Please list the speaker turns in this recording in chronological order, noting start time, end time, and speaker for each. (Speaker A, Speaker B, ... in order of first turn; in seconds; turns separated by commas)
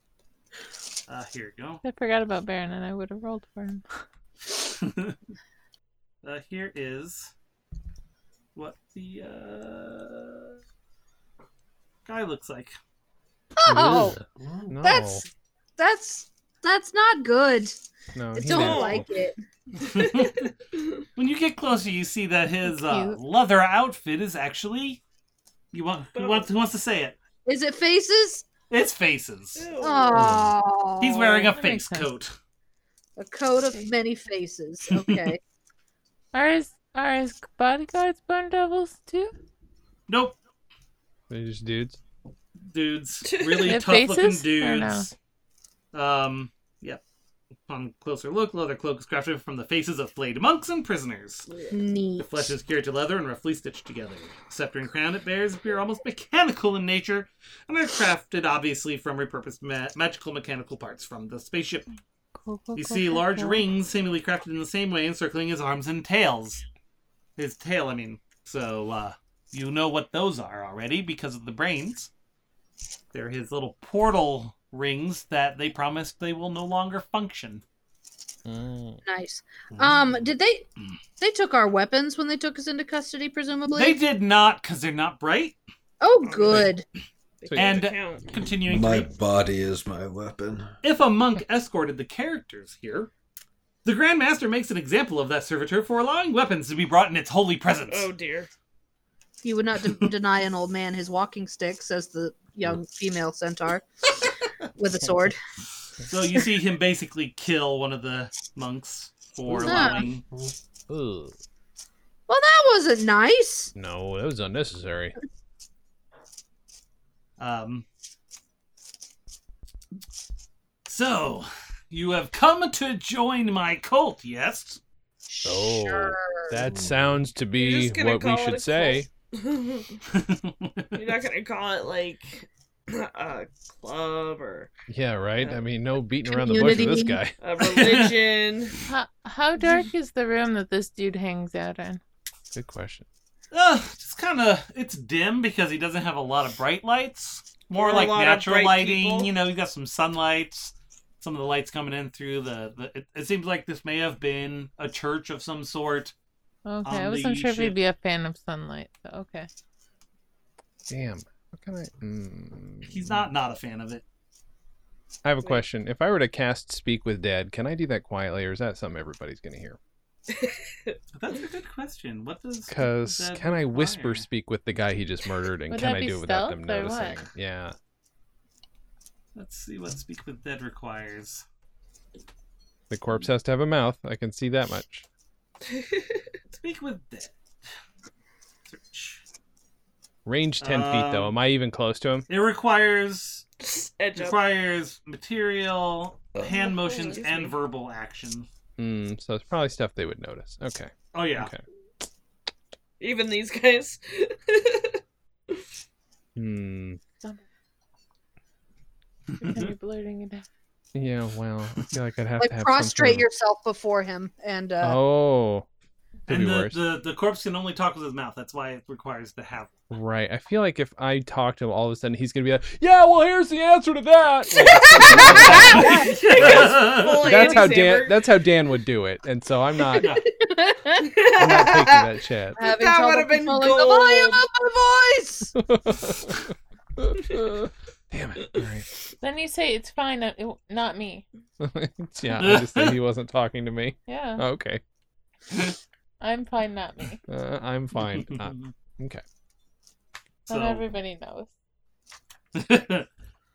Speaker A: 1.1-1.8, Speaker B: 1.8-4.0, Speaker A: 4.5-5.2, Speaker A: 6.2-7.3, Speaker A: 8.5-10.6, Speaker A: 12.1-12.7, Speaker C: 13.6-14.2, Speaker D: 13.7-15.2, Speaker E: 14.3-14.7, Speaker C: 14.8-17.8, Speaker D: 18.1-19.1, Speaker C: 18.3-19.3, Speaker F: 18.5-19.0, Speaker A: 19.8-20.5, Speaker F: 20.0-20.3, Speaker A: 21.1-25.0, Speaker B: 22.6-23.2, Speaker A: 25.7-27.1, Speaker F: 26.1-26.5, Speaker C: 27.4-28.4, Speaker A: 28.7-29.7, Speaker F: 29.6-30.3, Speaker C: 29.8-31.5, Speaker E: 30.2-30.5, Speaker A: 31.0-32.3, Speaker B: 31.4-32.1, Speaker C: 33.2-35.4, Speaker A: 34.9-35.3, Speaker B: 36.3-39.3, Speaker A: 40.1-40.4, Speaker D: 41.3-42.0, Speaker A: 42.7-45.1, Speaker F: 43.2-43.8, Speaker B: 43.7-45.1, Speaker A: 45.9-47.0, Speaker A: 47.7-51.5, Speaker F: 51.5-51.8, Speaker C: 51.7-52.5, Speaker A: 52.2-61.9, Speaker B: 62.4-63.6, Speaker A: 62.7-66.6, Speaker A: 67.4-72.1, Speaker A: 73.1-77.6, Speaker D: 78.5-79.0, Speaker C: 79.0-80.7, Speaker C: 81.2-84.0, Speaker A: 83.7-85.5, Speaker C: 86.0-86.8, Speaker F: 86.2-86.7, Speaker F: 87.4-88.3, Speaker D: 87.5-87.8, Speaker A: 87.5-89.1, Speaker E: 88.6-90.7, Speaker A: 90.8-93.1, Speaker A: 93.8-98.1, Speaker F: 97.9-98.5, Speaker C: 99.4-103.8, Speaker C: 104.8-105.4, Speaker A: 106.1-110.2, Speaker C: 109.5-110.1, Speaker D: 109.6-109.9, Speaker D: 110.9-111.3, Speaker C: 112.3-113.7, Speaker D: 113.7-115.1, Speaker A: 117.4-117.8, Speaker A: 120.8-124.8, Speaker C: 125.3-126.6, Speaker D: 125.4-129.1, Speaker E: 126.6-127.1, Speaker F: 127.5-130.0, Speaker A: 130.1-131.0, Speaker F: 130.9-134.7, Speaker D: 134.9-137.4, Speaker C: 136.3-137.2, Speaker F: 137.4-138.8, Speaker A: 137.6-138.2, Speaker B: 138.9-142.0, Speaker D: 142.5-143.1, Speaker A: 143.5-156.1, Speaker F: 147.7-149.3, Speaker B: 156.7-159.5, Speaker A: 156.8-157.8, Speaker D: 160.9-163.3, Speaker A: 162.8-164.0, Speaker D: 165.2-169.8, Speaker F: 170.3-170.9, Speaker A: 171.1-174.2, Speaker D: 172.7-177.8, Speaker B: 175.7-177.2, Speaker A: 179.3-181.4, Speaker D: 182.9-185.0, Speaker F: 185.7-186.2, Speaker A: 186.5-187.3, Speaker A: 188.7-189.2, Speaker D: 190.2-192.3, Speaker A: 190.6-191.3, Speaker A: 192.3-193.4, Speaker F: 193.6-194.4, Speaker A: 194.1-198.5, Speaker F: 196.4-197.6, Speaker D: 198.8-201.6, Speaker A: 201.1-201.5, Speaker F: 203.0-205.0, Speaker D: 206.3-207.0, Speaker A: 209.3-209.7, Speaker B: 209.4-210.4, Speaker D: 210.9-213.3, Speaker C: 212.4-215.0, Speaker D: 214.8-215.7, Speaker D: 216.3-216.8, Speaker A: 216.3-219.7, Speaker D: 219.9-230.1, Speaker F: 224.6-228.3, Speaker C: 225.0-226.2, Speaker A: 225.2-227.6, Speaker C: 229.9-231.3, Speaker A: 230.0-230.2, Speaker F: 231.1-232.1, Speaker D: 231.3-232.6, Speaker F: 232.6-234.4, Speaker C: 232.6-235.5, Speaker D: 235.6-238.9, Speaker B: 239.2-241.2, Speaker D: 241.6-244.8, Speaker A: 242.4-243.0, Speaker B: 244.1-244.4, Speaker A: 245.5-245.8, Speaker B: 246.2-247.2, Speaker D: 247.3-249.2, Speaker A: 248.0-248.7, Speaker A: 250.5-250.8, Speaker B: 250.5-251.5, Speaker A: 252.5-253.1